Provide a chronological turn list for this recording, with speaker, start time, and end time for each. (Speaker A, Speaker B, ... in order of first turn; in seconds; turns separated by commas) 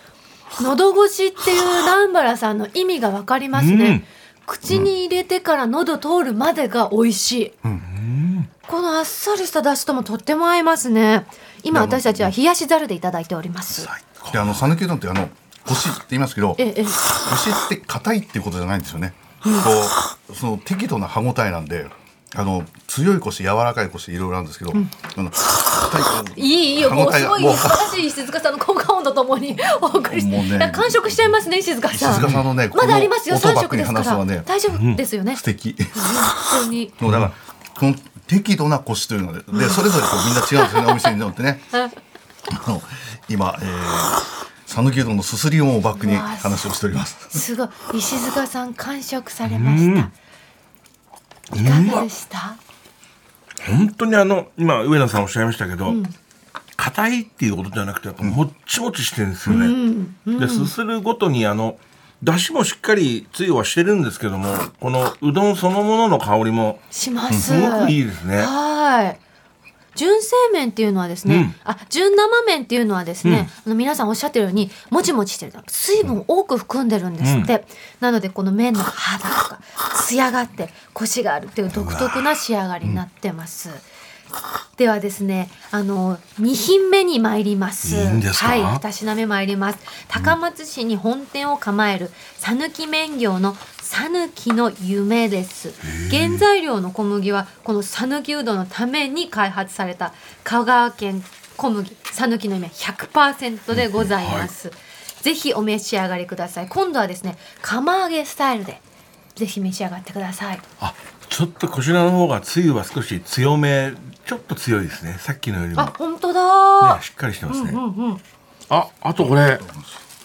Speaker A: 0.6-7.5, Speaker B: 3.5-4.0, Speaker B: 7.8-8.5, Speaker A: 8.7-13.9, Speaker C: 11.7-12.3, Speaker B: 13.7-14.6, Speaker C: 14.3-27.9, Speaker A: 16.6-17.0, Speaker A: 26.3-35.4, Speaker C: 30.1-31.3, Speaker C: 31.9-34.5, Speaker B: 32.1-32.4, Speaker B: 34.7-35.0, Speaker C: 35.3-36.3, Speaker A: 35.9-36.9, Speaker C: 37.0-41.7, Speaker A: 39.5-39.8, Speaker A: 40.5-40.9, Speaker C: 42.5-47.4, Speaker A: 46.0-46.6, Speaker A: 47.3-50.1, Speaker B: 49.4-50.1, Speaker B: 51.5-52.1, Speaker A: 51.5-52.6, Speaker B: 53.6-56.0, Speaker A: 55.9-56.1, Speaker B: 56.8-59.7, Speaker A: 59.5-60.7, Speaker B: 60.4-68.5, Speaker A: 66.9-69.2, Speaker A: 69.9-83.8, Speaker B: 71.2-71.5, Speaker B: 73.2-73.5, Speaker B: 77.2-77.5, Speaker B: 81.7-82.3, Speaker A: 84.8-108.8, Speaker B: 87.8-88.8, Speaker B: 95.8-96.4, Speaker B: 103.7-104.5, Speaker A: 109.3-110.6, Speaker B: 110.8-115.9, Speaker A: 115.8-118.2, Speaker B: 116.8-117.8, Speaker B: 118.7-119.6, Speaker C: 119.4-120.0